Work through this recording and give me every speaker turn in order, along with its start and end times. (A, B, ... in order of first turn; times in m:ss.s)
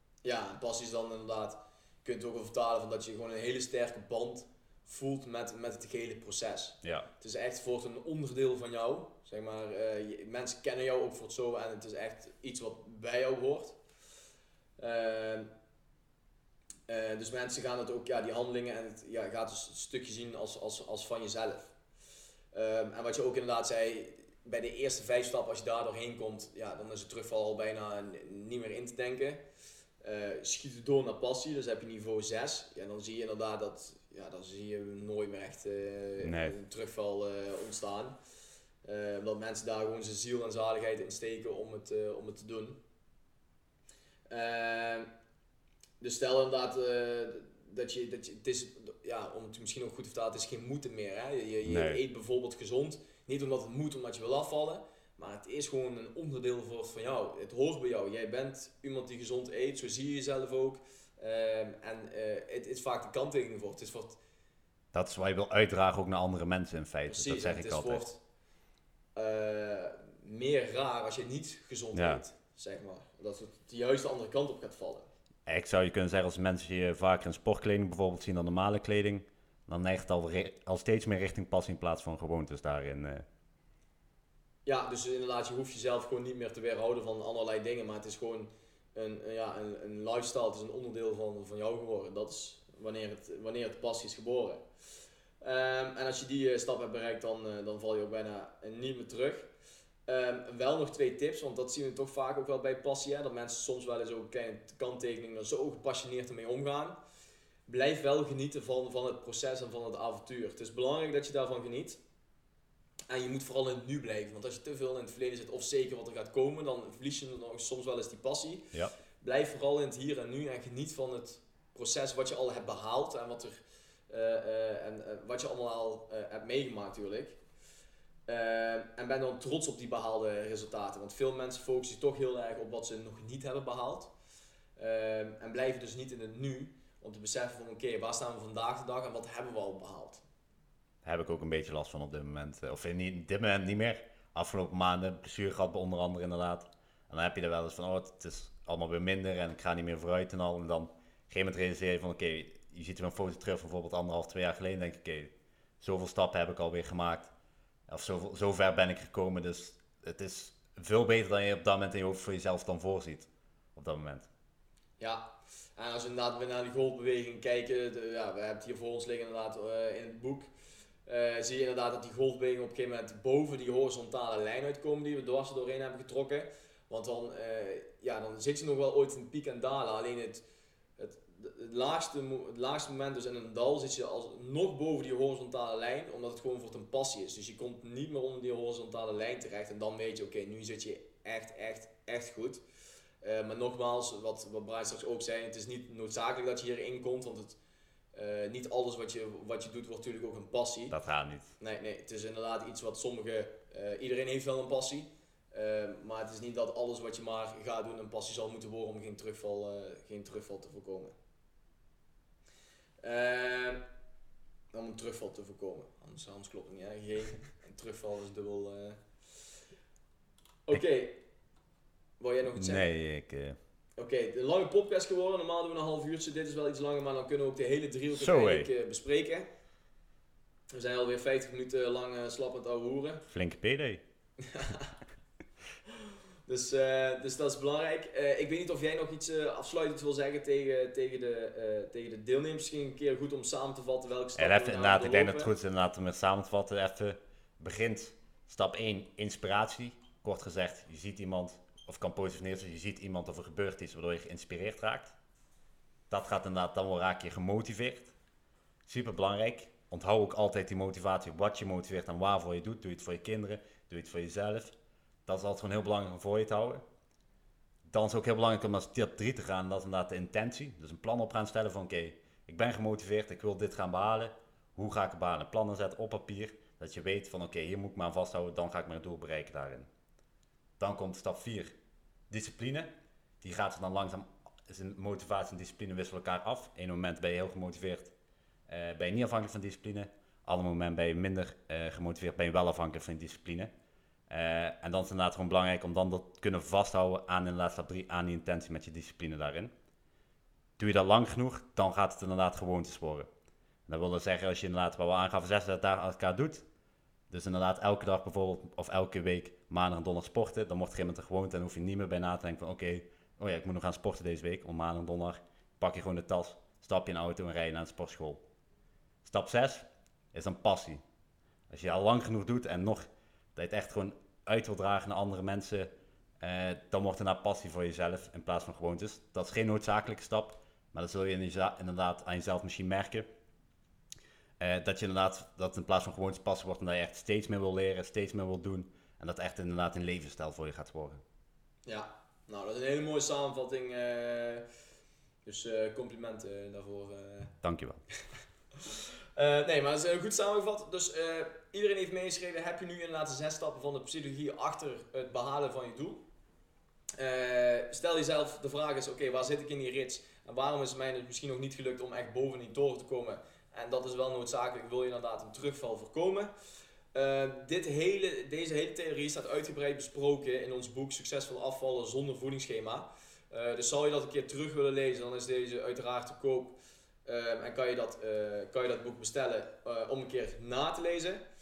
0:00.2-0:13.8 A
0:06.8-0:07.1 B
0:14.8-0:15.5 A
0:16.9-0:21.7 A
0:22.5-0:29.4 A
0:30.0-0:38.2 A
0:36.2-0:36.6 B
0:38.8-0:42.8 A
0:44.3-0:45.1 A
0:46.0-1:04.2 A
0:51.7-0:52.0 B
1:04.9-1:08.0 B
1:07.1-1:08.2 A
1:09.2-1:15.1 A
1:11.9-1:12.2 B
1:15.5-1:23.2 B
1:24.7-1:34.6 A
1:35.4-1:39.5 A
1:40.1-1:47.0 A
1:47.7-1:52.0 A
1:53.1-1:58.7 A
1:59.2-2:07.4 A
2:08.3-2:14.1 A
2:14.8-2:20.2 A
2:21.0-2:37.3 B
2:37.9-2:44.3 B
2:45.0-2:50.5 A
2:51.1-3:00.4 A
3:01.0-3:12.6 A
3:13.2-3:17.6 A
3:18.1-3:21.0 A
3:20.9-3:21.5 B
3:21.6-3:31.2 A
3:33.0-3:33.8 A
3:34.7-3:39.0 A
3:40.7-3:41.2 A
3:42.2-3:42.9 A
3:42.6-3:43.6 B
3:44.0-3:49.5 A
3:48.1-3:48.7 B
3:50.7-3:53.2 A
3:53.3-3:54.0 B
3:54.4-3:54.9 A
3:56.5-4:05.6 A
4:04.4-4:15.2 B
4:16.1-4:18.1 B
4:18.9-4:24.8 B
4:25.3-4:26.8 B
4:27.9-4:39.9 B
4:40.8-4:41.7 B
4:42.3-4:42.9 B
4:43.4-4:48.1 B
4:48.7-4:53.7 B
4:54.3-4:59.7 B
5:00.8-5:03.3 B
5:03.9-5:06.6 B
5:07.3-5:18.4 B
5:19.2-5:21.0 B
5:21.7-5:25.9 B
5:26.4-5:33.3 B
5:34.6-5:41.2 B
5:41.9-5:44.6 A
5:45.5-5:47.5 A
5:47.6-5:48.0 B
5:48.8-5:56.2 A
5:57.2-6:06.5 A
6:07.1-6:21.4 A